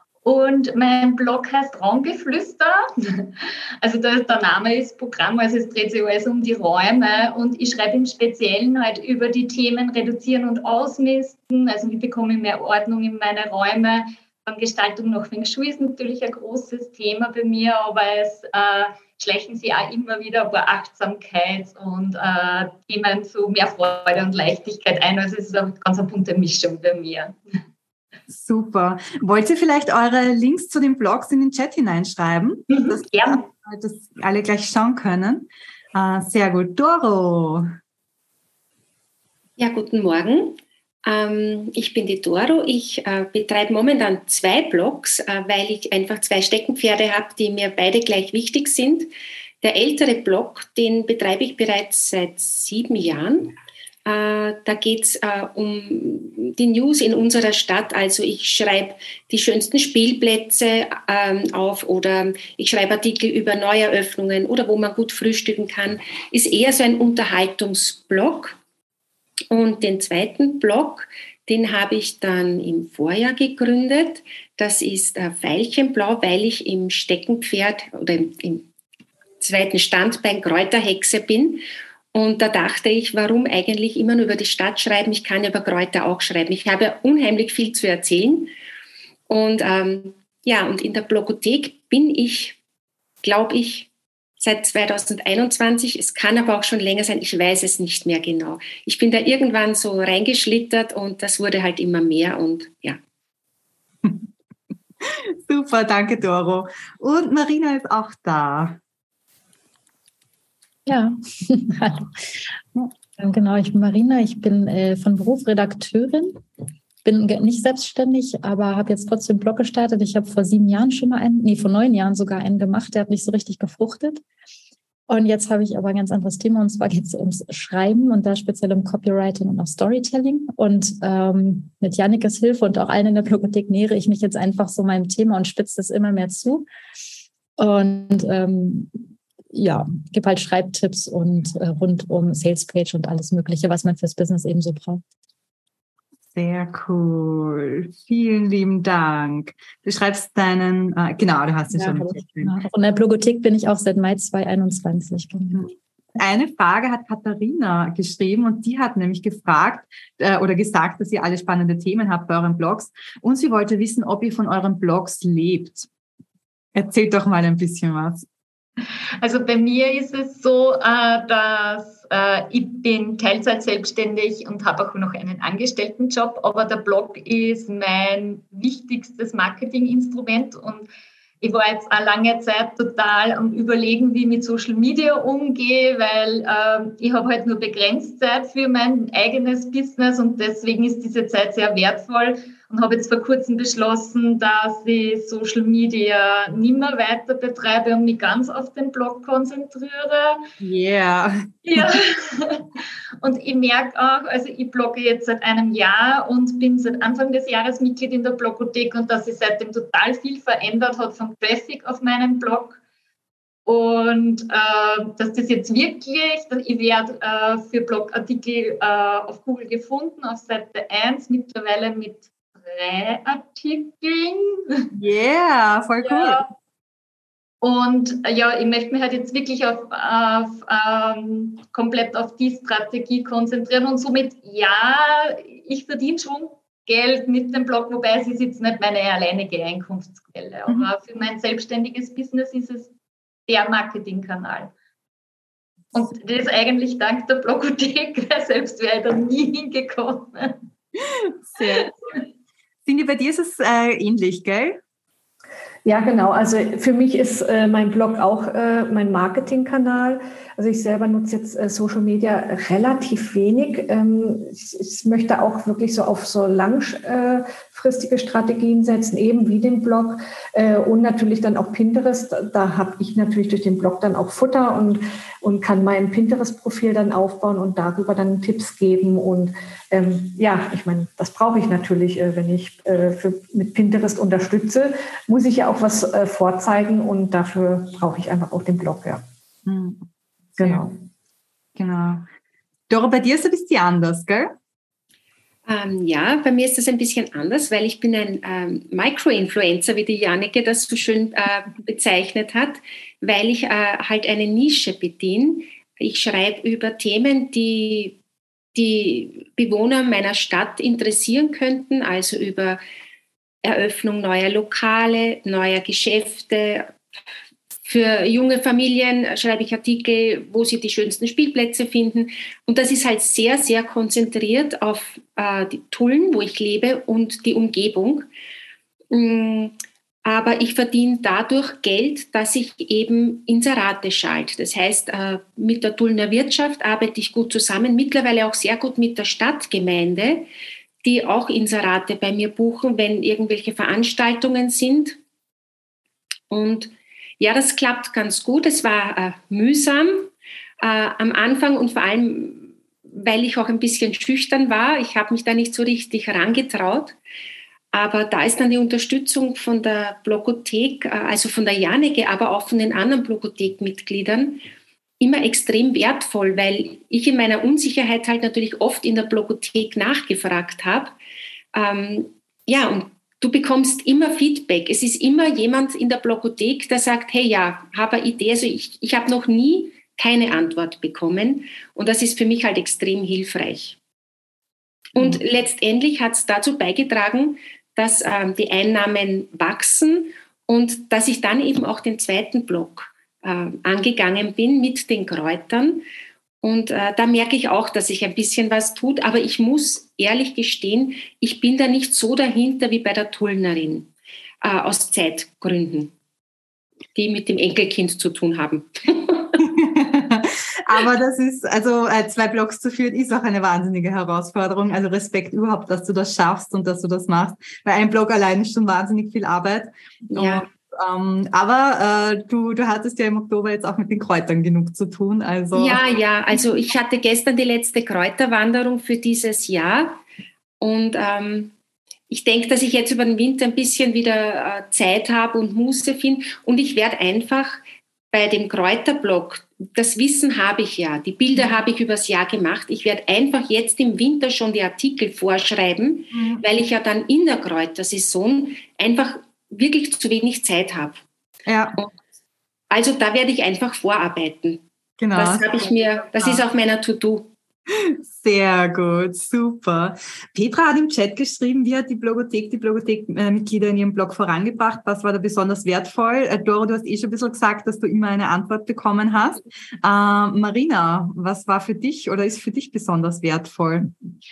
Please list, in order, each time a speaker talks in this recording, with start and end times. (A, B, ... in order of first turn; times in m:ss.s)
0:00.2-0:27.4 A
0:28.3-0:37.6 B
0:32.7-0:33.4 A
0:39.6-0:49.1 C
0:49.6-0:53.6 C
0:54.1-1:08.6 C
1:09.5-1:18.7 C
1:19.4-1:28.5 C
1:29.3-1:32.6 C
1:33.2-1:43.0 C
1:45.0-1:48.8 B
1:50.9-1:56.4 D
1:57.0-2:04.2 D
2:05.1-2:16.6 D
2:17.6-2:25.0 D
2:26.3-2:32.5 B
2:31.7-2:35.7 D
2:35.5-2:45.9 B
2:46.8-2:48.3 B
2:49.2-3:00.9 A
3:01.4-3:20.4 A
3:20.6-3:21.9 B
3:21.6-3:32.8 A
3:33.7-3:44.9 A
3:45.0-3:46.4 B
3:46.0-3:46.4 A
3:47.6-4:02.9 A
4:03.5-4:04.7 A
4:05.9-4:10.6 A
4:11.5-4:11.9 B
4:11.6-4:11.9 A
4:12.9-4:14.8 B
4:15.8-4:49.2 E
4:49.7-4:50.0 B
4:50.6-4:50.9 E
4:50.6-4:50.8 B
4:51.8-4:52.3 B
4:52.9-4:54.6 B
4:55.7-5:08.2 C
5:08.8-5:12.8 C
5:13.6-5:16.9 C
5:17.8-5:28.3 C
5:29.1-5:40.5 C
5:41.0-5:45.2 C
5:46.5-5:57.2 C
5:57.9-6:04.6 C
6:05.2-6:11.2 C
6:11.7-6:24.0 C
6:25.2-6:36.0 C
6:36.6-6:44.1 C
6:44.6-6:46.1 C
6:47.2-6:49.6 C
6:49.6-7:06.0 B
7:00.3-7:00.7 C
7:05.7-7:10.2 C
7:10.8-7:11.7 C
7:12.3-7:31.2 C
7:26.3-7:26.6 B
7:31.7-7:32.0 B
7:32.9-7:34.8 C
7:35.2-7:35.8 B
7:35.4-7:37.5 C
7:36.3-7:36.6 B
7:37.9-7:54.1 B